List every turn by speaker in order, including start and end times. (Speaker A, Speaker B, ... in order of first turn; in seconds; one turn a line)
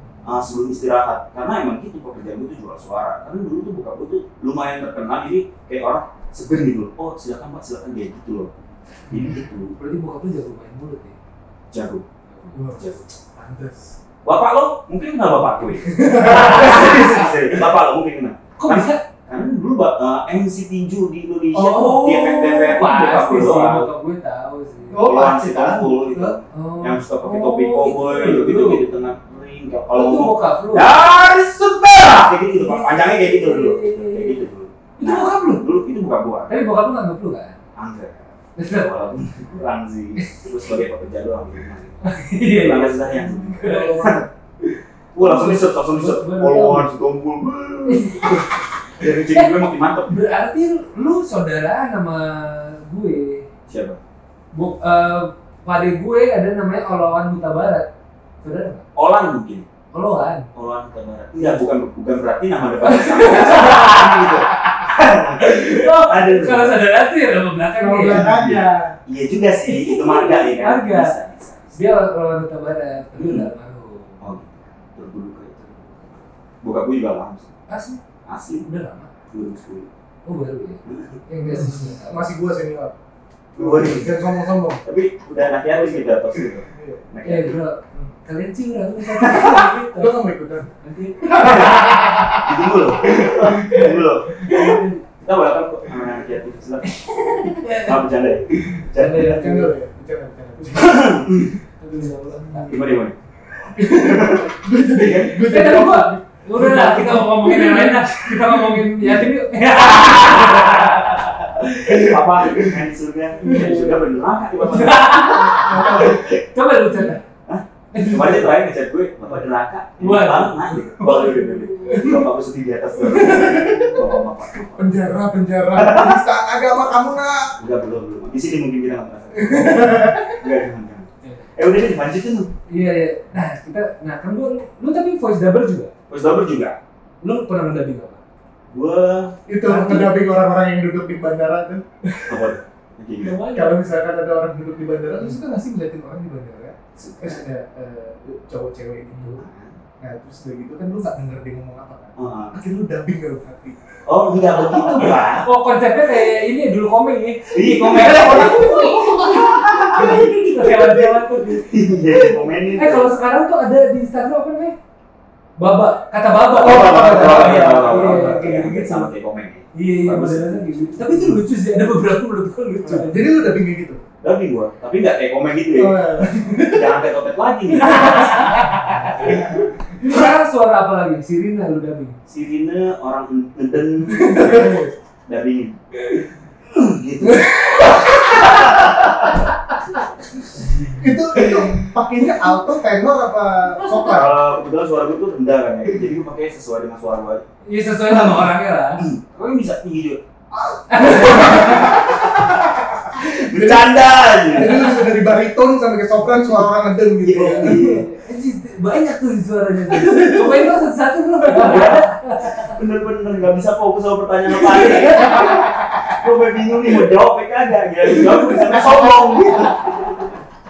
Speaker A: 0.2-8.5
Speaker A: 9.1-9.7
Speaker B: 9.2-11.2
Speaker A: 11.7-12.1
Speaker B: 12.3-12.6
Speaker C: 12.5-14.0
Speaker A: 12.8-13.0
Speaker A: 14.2-23.9
Speaker C: 15.8-17.3
Speaker B: 16.1-17.3
Speaker B: 18.6-19.1
Speaker B: 21.5-25.1
Speaker C: 24.9-26.4
Speaker A: 25.0-36.5
Speaker B: 26.5-28.9
Speaker B: 29.9-31.0
Speaker B: 32.5-34.4
Speaker B: 35.0-35.6
Speaker B: 36.5-37.6
Speaker A: 37.8-44.2
Speaker B: 38.6-38.9
Speaker B: 40.2-40.5
Speaker B: 42.0-44.2
Speaker C: 43.6-44.2
Speaker A: 45.1-50.2
Speaker B: 45.2-46.9
Speaker B: 47.9-48.5
Speaker B: 49.0-53.5
Speaker A: 53.7-54.0
Speaker B: 54.5-57.9
Speaker B: 58.4-58.8
Speaker A: 59.0-59.7
Speaker B: 59.9-60.5
Speaker A: 60.5-66.8
Speaker B: 61.4-61.6
Speaker B: 62.8-68.3
Speaker C: 67.8-69.0
Speaker A: 68.0-71.8
Speaker B: 69.6-71.1
Speaker B: 71.8-74.3
Speaker A: 73.2-73.5
Speaker A: 74.2-77.5
Speaker B: 77.7-78.0
Speaker A: 78.2-78.7
Speaker B: 78.6-79.1
Speaker A: 79.3-79.9
Speaker B: 80.2-82.3
Speaker A: 80.8-81.6
Speaker C: 81.4-83.0
Speaker A: 83.5-84.2
Speaker C: 83.6-84.8
Speaker A: 84.8-87.6
Speaker C: 85.6-87.1
Speaker B: 87.2-90.2
Speaker A: 89.1-89.7
Speaker C: 89.9-94.8
Speaker B: 90.8-92.4
Speaker A: 91.4-99.5
Speaker B: 94.5-95.0
Speaker B: 97.0-98.0
Speaker B: 98.7-99.7
Speaker C: 99.1-101.5
Speaker A: 100.7-101.6
Speaker B: 101.8-103.0
Speaker C: 102.0-102.8
Speaker A: 102.7-103.2
Speaker A: 103.7-105.7
Speaker C: 103.7-109.3
Speaker B: 105.4-112.2
Speaker A: 109.9-116.4
Speaker C: 111.9-112.8
Speaker B: 113.4-117.2
Speaker C: 113.4-113.8
Speaker C: 114.7-116.3
Speaker C: 116.9-117.2
Speaker A: 117.5-125.0
Speaker B: 117.9-118.5
Speaker B: 120.0-122.2
Speaker C: 121.9-122.3
Speaker C: 123.0-124.2
Speaker C: 124.8-127.6
Speaker A: 125.8-126.2
Speaker A: 127.6-132.5
Speaker C: 129.3-130.4
Speaker B: 131.2-131.5
Speaker B: 132.7-135.9
Speaker A: 136.1-136.8
Speaker B: 137.2-138.2
Speaker A: 138.7-139.4
Speaker C: 139.5-142.5
Speaker B: 139.6-140.1
Speaker A: 142.3-143.4
Speaker B: 143.2-143.9
Speaker C: 143.5-149.4
Speaker A: 147.0-147.4
Speaker A: 149.3-149.8
Speaker C: 150.0-155.3
Speaker A: 152.2-152.6
Speaker A: 154.1-155.5
Speaker B: 155.4-164.8
Speaker A: 157.5-160.3
Speaker C: 157.9-160.9
Speaker A: 161.5-163.1
Speaker B: 165.6-169.1
Speaker A: 166.5-171.4
Speaker C: 166.6-168.5
Speaker B: 169.8-173.5
Speaker C: 172.8-174.0
Speaker A: 174.2-179.6
Speaker C: 175.8-177.0
Speaker C: 177.8-178.2
Speaker B: 177.8-182.2
Speaker C: 179.2-180.3
Speaker A: 182.3-189.4
Speaker C: 184.1-184.9
Speaker C: 187.2-189.2
Speaker B: 190.6-191.0
Speaker C: 190.9-194.4
Speaker A: 191.4-191.8
Speaker A: 194.1-197.4
Speaker B: 197.6-199.0
Speaker A: 198.1-200.2
Speaker C: 200.5-208.0
Speaker B: 200.9-202.2
Speaker A: 201.4-202.6
Speaker A: 203.1-204.9
Speaker A: 207.2-208.1
Speaker B: 207.5-212.7
Speaker C: 209.9-210.7
Speaker A: 211.5-220.3
Speaker C: 218.2-219.6